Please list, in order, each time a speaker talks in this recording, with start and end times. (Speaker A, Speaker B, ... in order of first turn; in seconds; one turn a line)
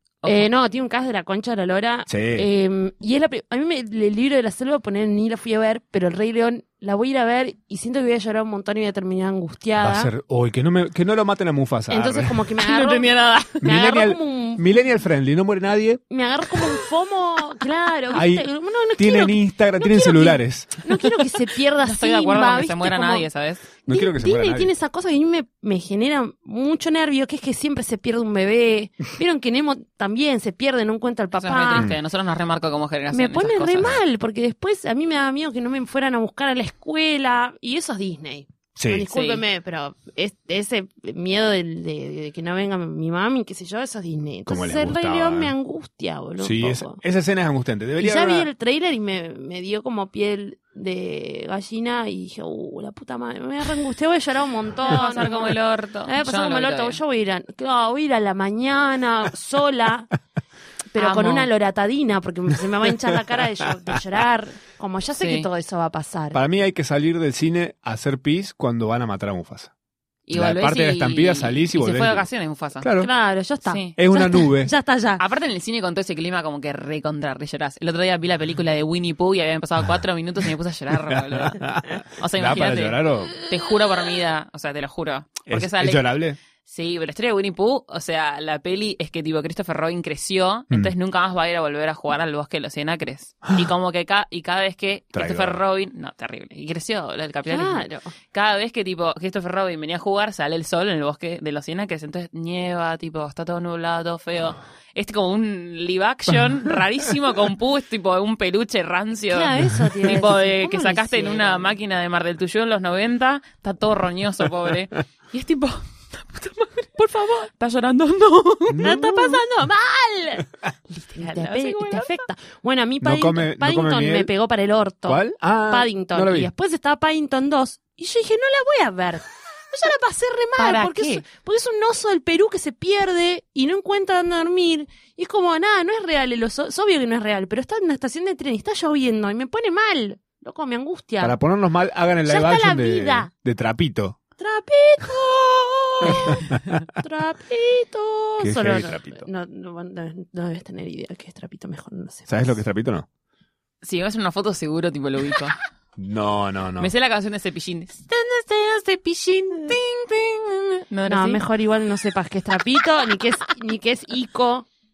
Speaker A: 0.2-0.5
Speaker B: 0.2-10.1
Speaker C: 2.1-2.5
Speaker C: 9.8-12.4
Speaker B: 11.9-14.6
Speaker A: 12.6-13.6
Speaker C: 13.6-16.0
Speaker B: 16.1-23.2
Speaker C: 18.1-21.1
Speaker A: 21.8-23.6
Speaker C: 23.9-24.7
Speaker B: 23.9-31.9
Speaker A: 31.4-33.9
Speaker B: 33.1-47.0
Speaker C: 38.8-39.1
Speaker A: 39.1-39.4
Speaker C: 44.5-45.5
Speaker C: 46.4-48.5
Speaker B: 48.0-60.1
Speaker A: 54.9-57.0
Speaker B: 60.9-66.4
Speaker A: 61.0-61.5
Speaker A: 65.2-65.5
Speaker C: 66.3-69.7
Speaker A: 70.3-72.9
Speaker C: 70.3-72.3
Speaker C: 72.8-73.1
Speaker B: 73.0-75.2
Speaker A: 73.7-73.9
Speaker C: 74.0-74.7
Speaker A: 75.2-86.1
Speaker C: 81.0-83.3
Speaker C: 85.5-86.4
Speaker A: 86.6-118.9
Speaker C: 95.1-95.6
Speaker B: 97.5-98.1
Speaker B: 109.3-111.7
Speaker C: 118.7-119.4
Speaker B: 118.8-120.5
Speaker A: 120.9-122.2
Speaker B: 121.2-141.4
Speaker C: 123.0-124.3
Speaker C: 125.1-126.5
Speaker A: 130.6-131.2
Speaker C: 141.2-144.2
Speaker B: 142.2-143.3
Speaker B: 144.4-152.6
Speaker C: 146.1-146.6
Speaker C: 148.4-149.3
Speaker C: 152.3-153.1
Speaker A: 153.8-155.6
Speaker C: 156.0-156.9
Speaker A: 156.8-161.4
Speaker B: 161.1-164.7